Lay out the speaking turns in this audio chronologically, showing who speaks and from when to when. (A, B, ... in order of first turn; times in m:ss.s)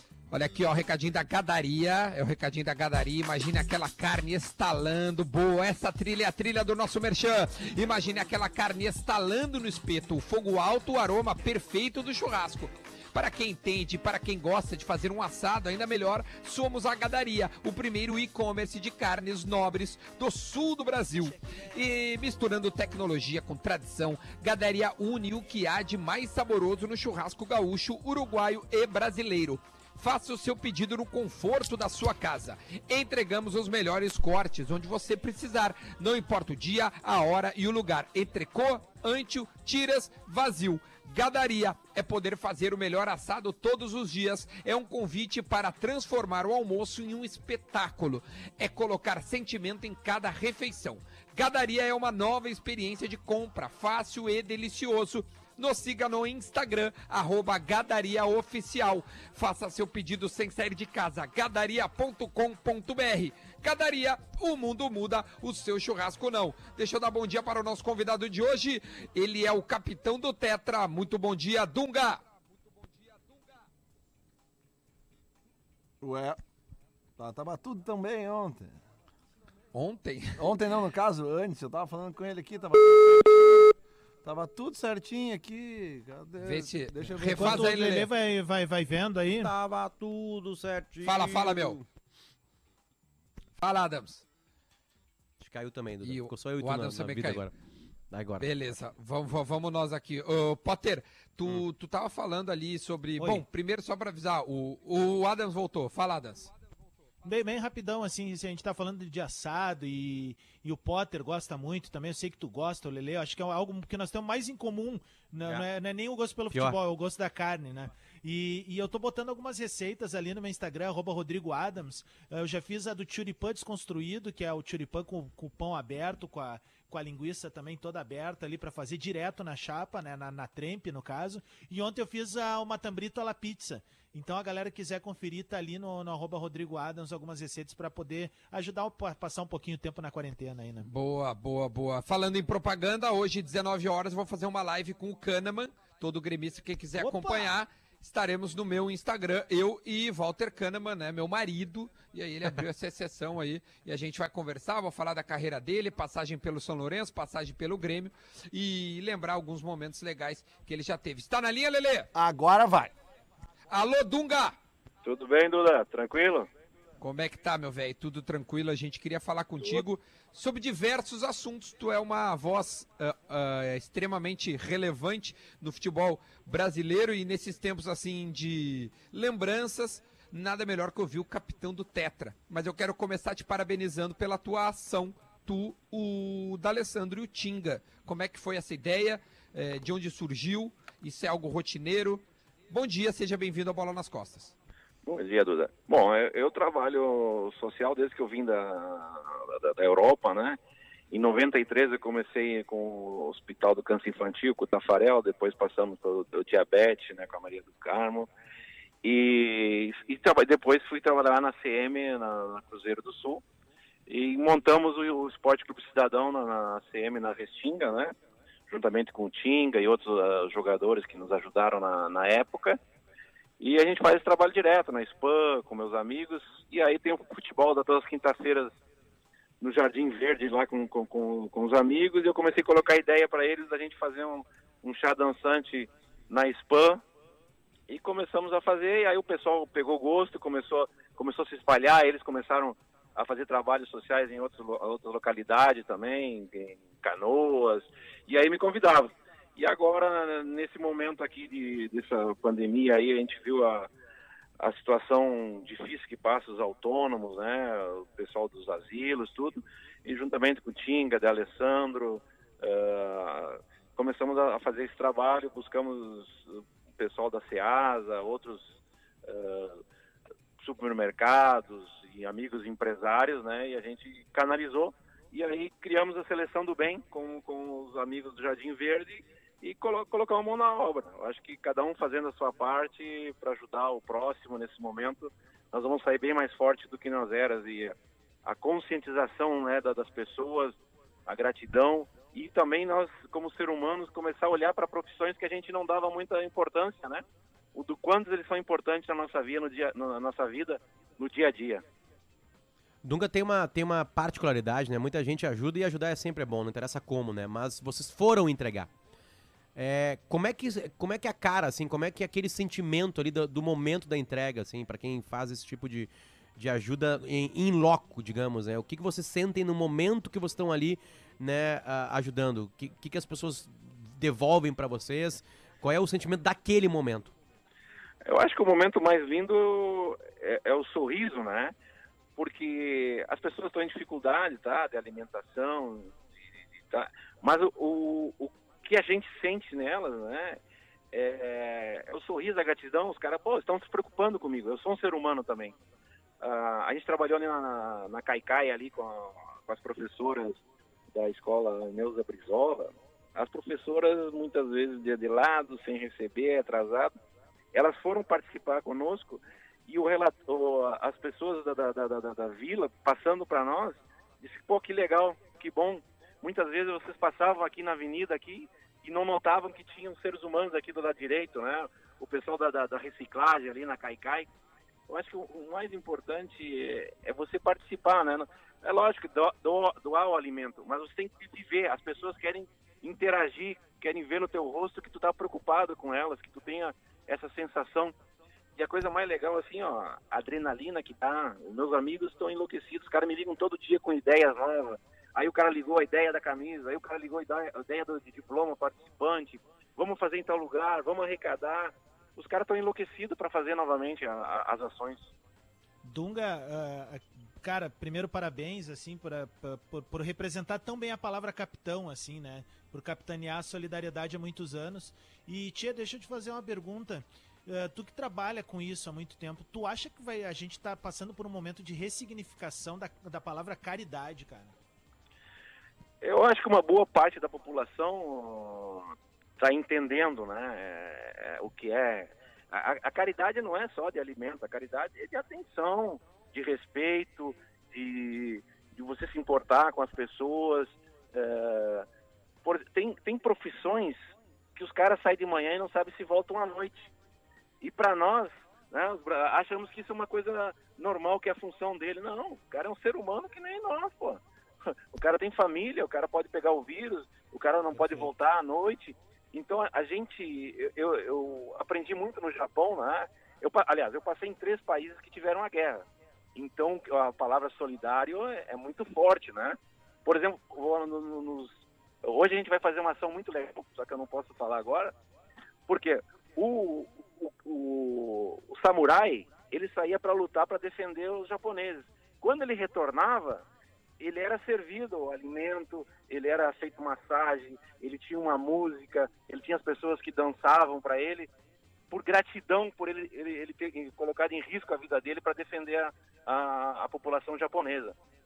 0:00.3-1:12.2 A
1:16.0-1:16.4 B
1:17.2-1:18.8 B
1:19.7-1:20.5 A
1:20.4-1:23.7 B
1:24.2-1:27.7 B
1:26.4-1:28.1 A
1:27.3-1:29.5 C
1:29.3-1:31.8 D
1:31.0-1:31.8 A
1:33.6-1:34.2 A
1:35.4-1:37.5 D
1:36.0-1:37.5 A
1:38.1-1:38.5 D
1:38.4-1:46.5 A
1:43.2-1:43.4 C
1:47.2-2:20.9 C
2:20.9-2:42.1 A
2:27.0-2:27.6 C
2:42.2-2:42.9 B
2:43.7-2:44.6 A
2:45.0-2:46.5 E
2:47.0-3:14.5 A
3:15.1-3:20.6 E
3:21.1-3:28.3 E
3:29.0-3:33.4 E
3:34.1-3:38.1 E
3:38.7-3:42.8 E
3:43.6-3:48.7 E
3:49.6-3:57.0 E
3:57.9-4:13.9 E
4:14.6-4:29.8 E
4:30.6-4:57.2 E
4:57.8-5:01.8 E
5:03.0-5:08.9 D
5:09.8-5:27.3 D
5:28.2-5:31.7 E
5:32.4-5:36.2 E
5:36.9-5:40.6 E
5:41.1-5:45.8 E
5:46.4-5:50.6 E
5:51.1-5:57.1 E
5:57.7-6:14.5 E
6:15.1-6:28.2 E
6:28.8-6:45.3 E
6:46.0-7:04.7 C
7:06.2-7:22.1 E
7:22.6-7:24.2 E
7:24.8-7:27.1 E
7:27.8-7:34.4 E
7:35.1-7:55.1 E
7:55.9-8:03.6 E
8:04.2-8:11.5 E
8:12.1-8:18.2 E